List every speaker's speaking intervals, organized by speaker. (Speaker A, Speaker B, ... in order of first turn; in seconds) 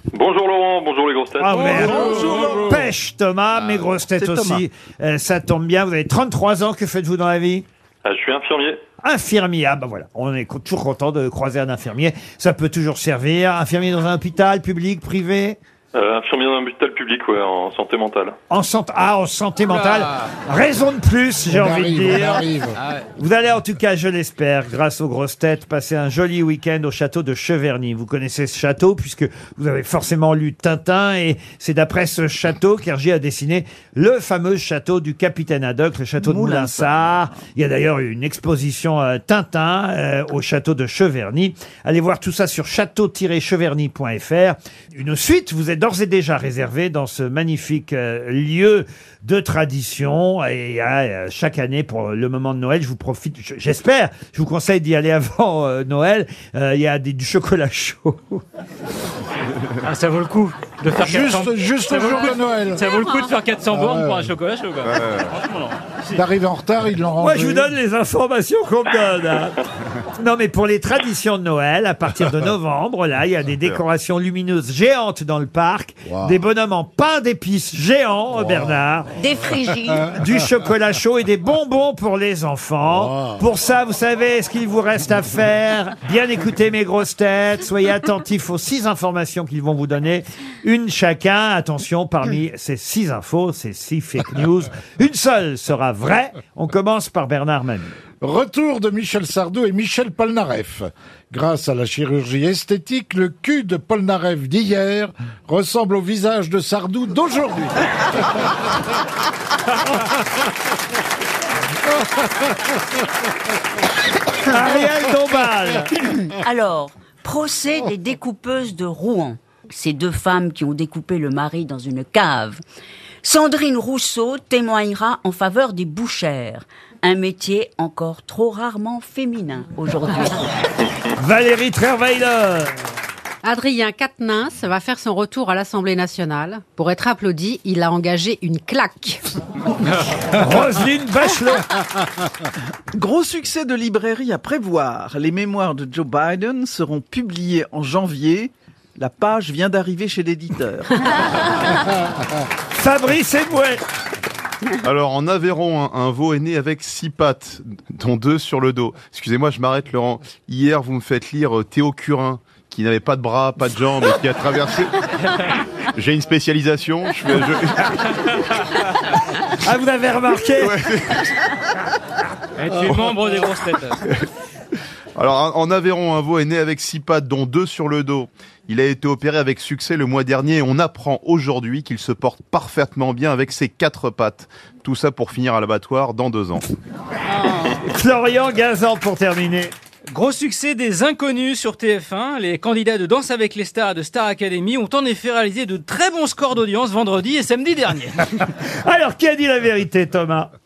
Speaker A: 0.1-2.0, 8.1-8.8, 15.9-18.4
Speaker B: 1.4-7.7, 9.0-15.6, 18.5-22.5, 23.2-58.4, 67.2-79.1, 80.1-97.9, 114.5-115.9, 131.2-132.8, 140.3-141.8, 152.7-153.8, 169.5-170.7, 187.8-189.7, 198.6-200.5
Speaker C: 1.6-2.8, 4.2-4.6, 36.2-37.3, 142.9-151.3
Speaker D: 21.5-22.8, 61.0-63.0, 63.7-64.3, 66.1-67.7, 76.1-76.4, 78.3-78.8, 82.8-83.5, 98.2-108.1
Speaker E: 59.8-66.2, 172.6-174.0, 190.1-198.2
Speaker F: 64.8-65.4, 154.8-165.0, 165.8-168.6, 170.5-171.5, 174.0-174.3, 175.2-186.7
Speaker G: 79.2-80.1, 115.9-122.6, 123.2-130.4, 187.2-187.8
Speaker H: 133.4-139.2